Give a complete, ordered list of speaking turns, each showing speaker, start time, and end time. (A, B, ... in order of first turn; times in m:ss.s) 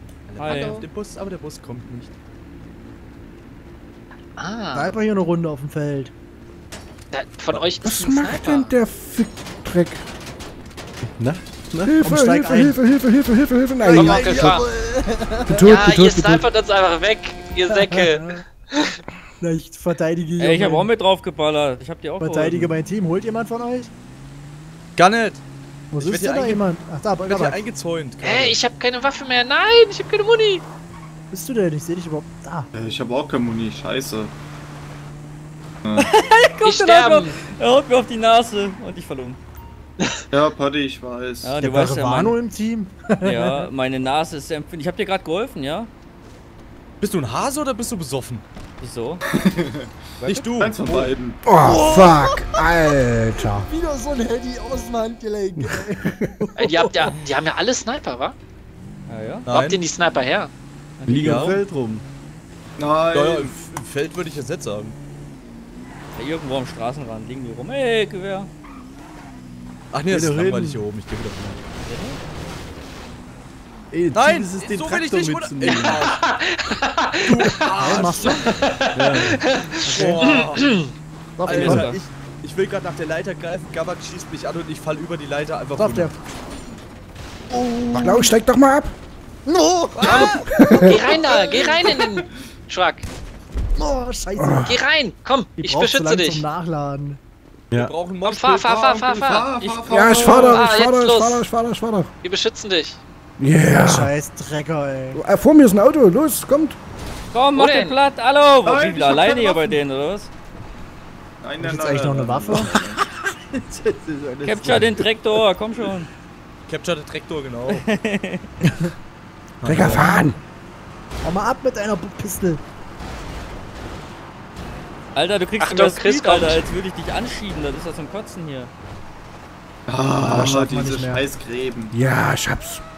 0:00.3-0:02.1 A
0:00.4-0:00.9 B
0:04.4-0:04.9 B
0:04.7-0:06.1 C
0:07.1-0:08.7 B
0:07.8-0:10.0 D
0:11.0-0:12.0 E
0:11.9-0:14.6 D
0:12.0-0:12.8 C
0:13.8-0:15.7 E
0:13.9-0:14.6 B
0:14.2-0:14.6 C
0:15.5-0:16.5 D
0:15.7-0:19.0 B
0:17.7-0:18.4 C
0:19.4-0:20.9 C
0:20.4-0:22.6 F
0:20.6-0:21.1 B
0:22.2-0:23.9 C
0:22.5-0:22.8 A
0:25.0-0:25.4 A
0:25.9-0:27.6 C
0:26.0-0:26.7 A
0:27.2-0:28.6 A
0:28.2-0:30.6 B
0:31.3-0:32.7 C
0:32.7-0:34.3 G
0:35.8-0:36.1 G
0:36.3-0:39.4 F
0:36.5-0:37.5 B
0:40.3-0:41.6 G
0:41.4-0:42.4 F
0:41.6-0:43.7 C
0:43.3-0:45.9 F
0:47.0-0:48.4 A
0:48.8-0:49.2 B
0:48.9-0:49.2 F
0:49.4-0:49.9 G
0:50.2-0:51.1 A
0:50.6-0:51.4 G
0:51.4-0:53.7 D
0:51.6-0:52.6 C
0:53.4-0:57.0 C
0:56.6-0:58.4 B
0:59.2-0:59.5 F
0:59.4-1:00.5 B
0:59.5-0:59.8 A
1:01.1-1:02.0 E
1:01.2-1:01.6 A
1:02.8-1:03.5 G
1:03.1-1:05.0 A
1:06.2-1:07.4 B
1:06.3-1:08.5 F
1:09.9-1:11.6 A
1:10.1-1:10.9 E
1:13.9-1:16.1 E
1:14.1-1:16.2 A
1:15.7-1:20.9 B
1:17.3-1:18.5 A
1:17.8-1:18.5 C
1:18.9-1:19.4 E
1:19.8-1:20.4 C
1:19.9-1:20.7 A
1:21.4-1:21.9 C
1:21.4-1:26.2 A
1:21.5-1:22.0 F
1:25.8-1:26.2 C
1:27.5-1:28.3 C
1:27.9-1:28.9 D
1:29.4-1:30.4 C
1:30.0-1:30.6 A
1:30.0-1:33.0 B
1:30.5-1:31.1 D
1:31.1-1:32.3 G
1:33.8-1:34.7 C
1:34.4-1:34.7 D
1:34.7-1:36.4 B
1:35.6-1:37.2 C
1:37.7-1:39.1 A
1:38.2-1:41.5 B
1:39.0-1:40.8 G
1:39.9-1:42.1 D
1:42.2-1:43.0 B
1:43.4-1:44.1 D
1:43.8-1:45.2 C
1:45.2-1:46.8 D
1:47.3-1:50.3 F
1:47.4-1:50.0 B
1:48.6-1:49.8 G
1:51.4-1:53.0 G
1:51.6-1:52.7 C
1:52.5-1:55.3 E
1:54.5-1:55.9 B
1:54.5-1:56.1 F
1:56.7-1:57.8 A
1:59.6-2:00.1 A
1:59.6-2:00.4 D
1:59.7-2:00.0 E
1:59.8-2:00.1 C
2:01.2-2:02.6 C
2:05.2-2:08.0 B
2:05.2-2:08.7 F
2:09.9-2:12.0 G
2:10.2-2:11.3 C
2:11.9-2:12.8 D